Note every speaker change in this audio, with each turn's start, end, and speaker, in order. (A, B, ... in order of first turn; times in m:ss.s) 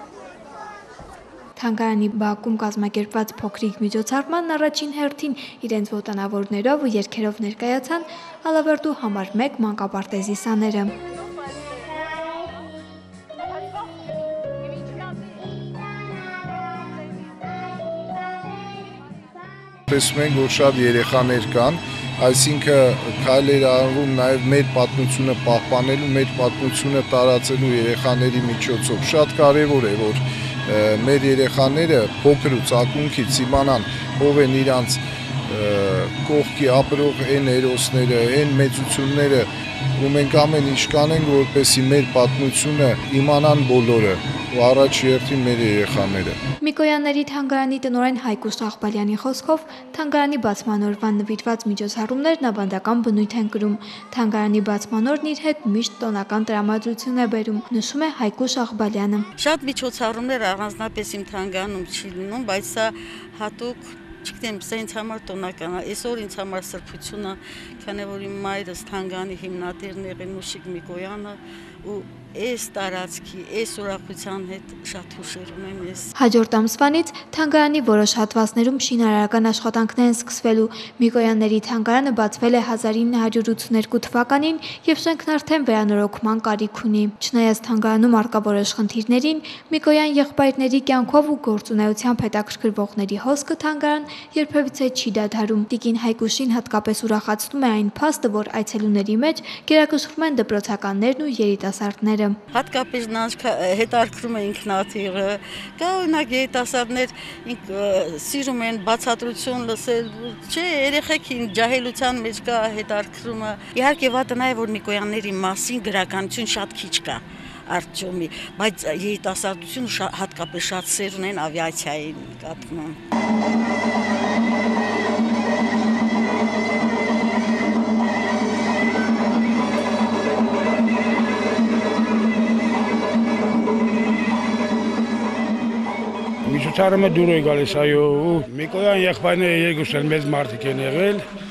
0:01.6-0:10.9 A
0:19.9-0:46.4 B
0:46.6-0:59.3 A
0:59.4-1:16.1 C
1:16.2-1:42.4 A
1:42.5-2:03.0 C
2:16.4-2:21.3 D